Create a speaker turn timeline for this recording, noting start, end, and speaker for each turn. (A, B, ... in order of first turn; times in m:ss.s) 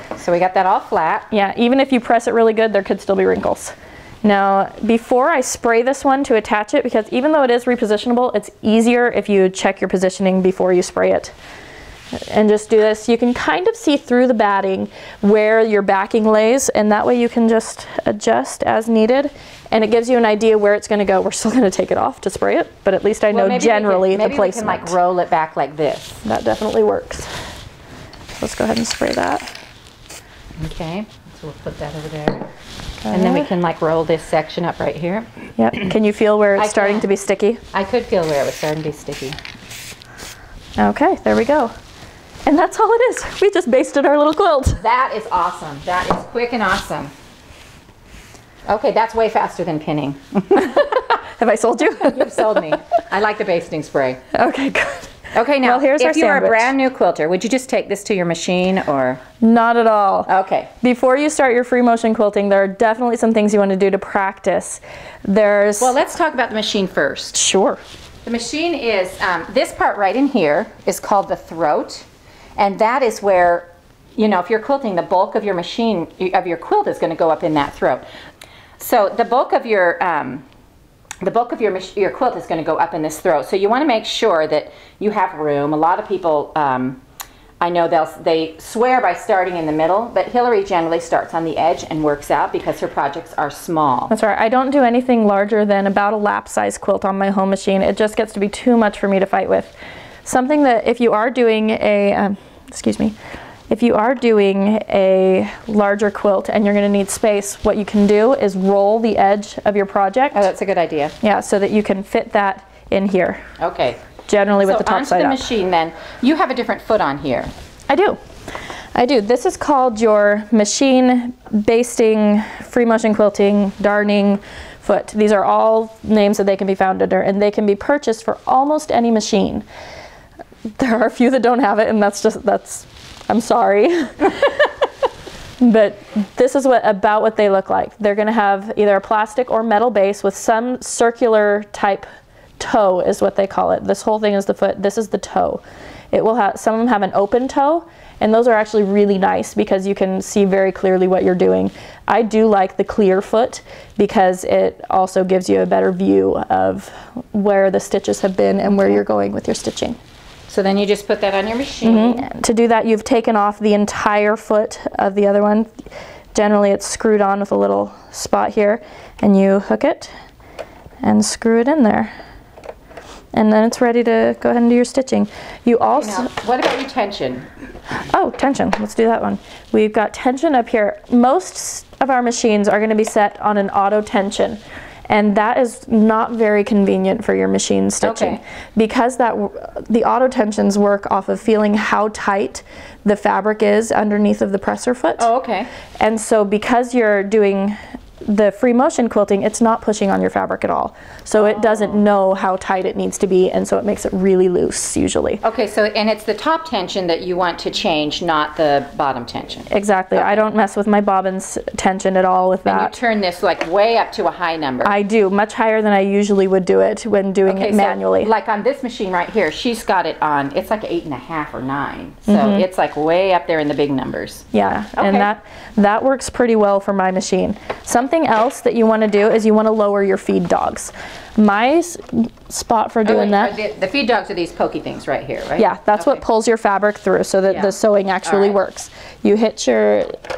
0:00.2-0:01.3 A
0:01.3-0:11.3 B
0:12.1-0:24.9 B
0:23.3-0:26.2 A
0:26.2-0:27.3 B
0:28.4-0:29.5 B
0:30.6-0:32.5 A
0:33.0-0:33.5 B
0:33.1-0:35.9 A
0:35.6-0:37.6 B
0:36.6-0:37.1 A
0:37.7-0:39.4 A
0:40.8-0:41.7 B
0:42.4-0:44.8 B
0:44.8-0:47.1 A
0:48.7-0:51.1 A
0:50.6-0:52.7 B
0:52.0-0:54.2 A
0:54.3-0:56.7 B
0:55.3-0:59.2 A
0:59.4-1:05.9 B
1:00.3-1:00.7 A
1:05.8-1:07.4 A
1:07.3-1:07.8 B
1:08.2-1:12.0 A
1:12.6-1:18.0 A
1:18.8-1:20.4 A
1:21.2-1:27.0 A
1:27.6-1:34.1 A
1:34.1-1:39.7 B
1:40.2-1:43.1 B
1:43.7-1:50.4 B
1:50.3-1:51.1 A
1:51.2-1:53.4 B
1:53.6-1:54.0 A
1:54.2-1:55.4 B
1:54.6-1:57.5 A
1:57.9-1:58.2 B
1:58.9-2:09.6 B
2:10.8-2:14.6 B
2:15.6-2:22.0 B
2:22.6-2:40.0 B
2:40.5-2:42.2 A
2:41.8-2:45.7 B
2:46.3-2:50.1 B
2:51.0-2:52.1 B
2:53.3-2:56.3 B
2:56.0-2:57.5 A
2:58.0-3:15.3 B
3:08.0-3:08.4 A
3:15.2-3:15.7 A
3:16.0-3:25.4 B
3:21.3-3:22.0 A
3:25.4-3:30.4 A
3:29.7-3:32.9 B
3:32.6-3:34.9 A
3:34.8-3:38.3 B
3:37.4-3:44.4 A
3:42.3-3:42.6 B
3:44.5-3:53.5 B
3:45.0-3:45.3 A
3:53.0-3:56.2 A
3:55.6-4:00.2 B
3:57.5-3:58.6 A